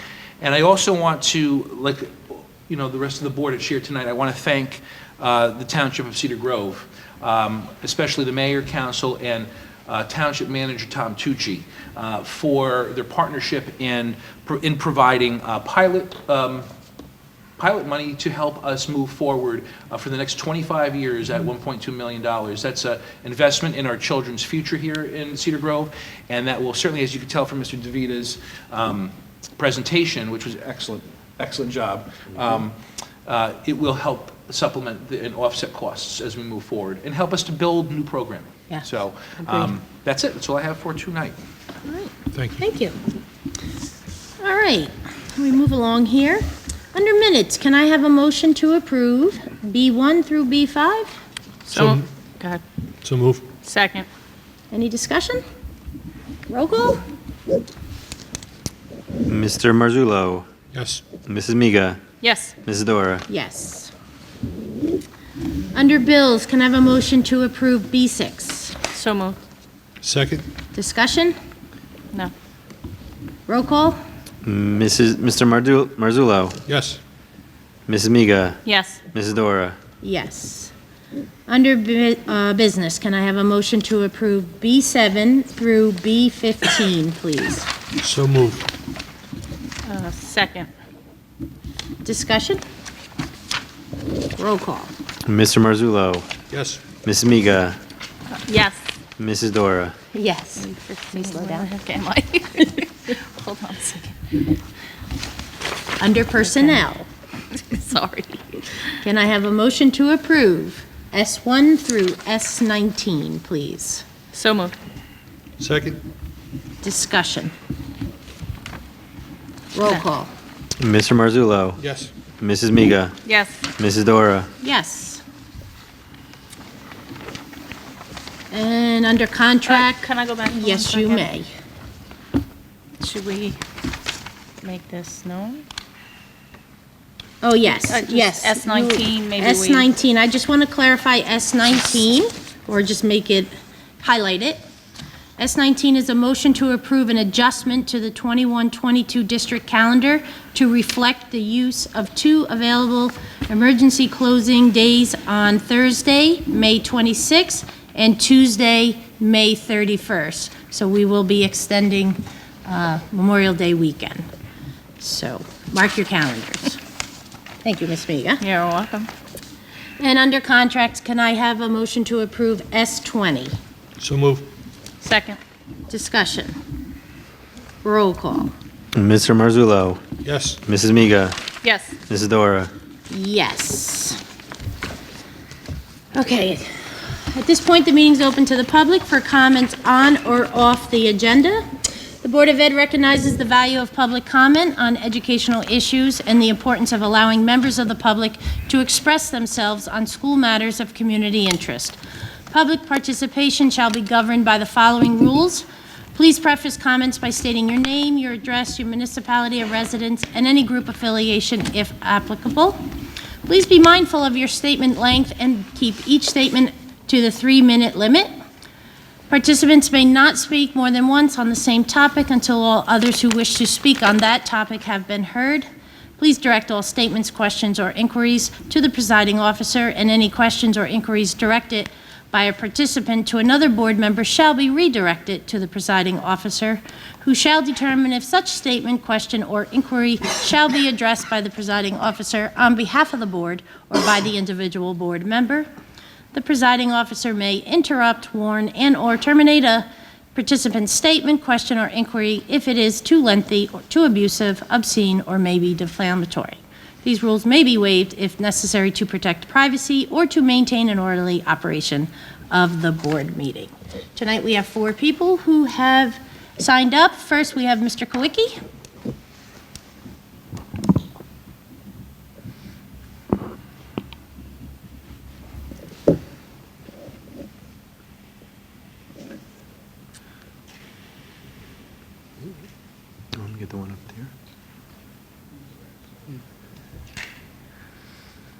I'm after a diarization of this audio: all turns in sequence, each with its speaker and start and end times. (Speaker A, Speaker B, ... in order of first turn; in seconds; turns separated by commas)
Speaker A: 0.4-16.7, Speaker A: 17.6-41.4, Speaker B: 41.8-43.0, Speaker C: 42.3-42.6, Speaker B: 44.4-51.1, Speaker D: 51.7-52.6, Speaker C: 51.7-52.0, Speaker C: 53.0-53.5, Speaker D: 53.6-54.1, Speaker B: 54.7-55.4, Speaker B: 56.5-57.0, Speaker E: 59.2-60.5, Speaker C: 60.7-61.0, Speaker E: 61.2-62.0, Speaker D: 62.2-62.5, Speaker E: 62.6-63.2, Speaker B: 63.3-63.9, Speaker B: 65.7-68.8, Speaker D: 68.9-69.4, Speaker C: 70.0-70.5, Speaker B: 70.7-71.3, Speaker B: 73.5-74.0, Speaker E: 74.4-76.6, Speaker C: 76.7-77.0, Speaker E: 77.9-78.6, Speaker D: 78.7-79.0, Speaker E: 79.1-79.8, Speaker B: 80.0-80.7, Speaker B: 81.5-87.7, Speaker C: 88.0-88.7, Speaker D: 89.9-90.7, Speaker B: 92.0-92.6, Speaker B: 94.4-94.9, Speaker E: 95.2-96.3, Speaker C: 96.5-96.8, Speaker E: 97.0-97.8, Speaker D: 98.4-98.8, Speaker E: 99.2-99.9, Speaker B: 100.1-101.7, Speaker D: 100.6-104.5, Speaker B: 106.0-107.0, Speaker D: 106.4-106.8, Speaker D: 107.5-108.8, Speaker B: 109.0-114.0, Speaker D: 114.3-114.7, Speaker C: 115.6-116.0, Speaker B: 116.8-117.5, Speaker B: 119.7-120.3, Speaker E: 120.8-121.8, Speaker C: 121.8-122.1, Speaker E: 122.4-123.1, Speaker D: 123.2-123.6, Speaker E: 123.8-124.5, Speaker B: 124.6-125.2, Speaker B: 128.5-131.5, Speaker D: 129.7-131.3, Speaker D: 133.0-133.6, Speaker D: 134.6-135.6, Speaker B: 137.4-144.6, Speaker D: 137.7-139.9, Speaker B: 145.4-164.2, Speaker B: 165.0-166.8, Speaker B: 167.6-168.4, Speaker D: 168.4-169.1, Speaker B: 170.0-173.6, Speaker C: 174.0-174.5, Speaker D: 175.0-175.4, Speaker B: 175.9-176.6, Speaker B: 177.8-178.5, Speaker E: 178.9-180.0, Speaker C: 180.2-180.6, Speaker E: 180.6-181.4, Speaker D: 181.6-182.0, Speaker E: 182.1-182.7, Speaker B: 183.1-184.2, Speaker B: 186.1-191.6, Speaker B: 192.2-202.0, Speaker B: 202.5-212.8, Speaker B: 213.5-218.3, Speaker B: 219.3-225.7, Speaker B: 226.2-245.7, Speaker B: 246.3-268.5, Speaker E: 283.3-284.3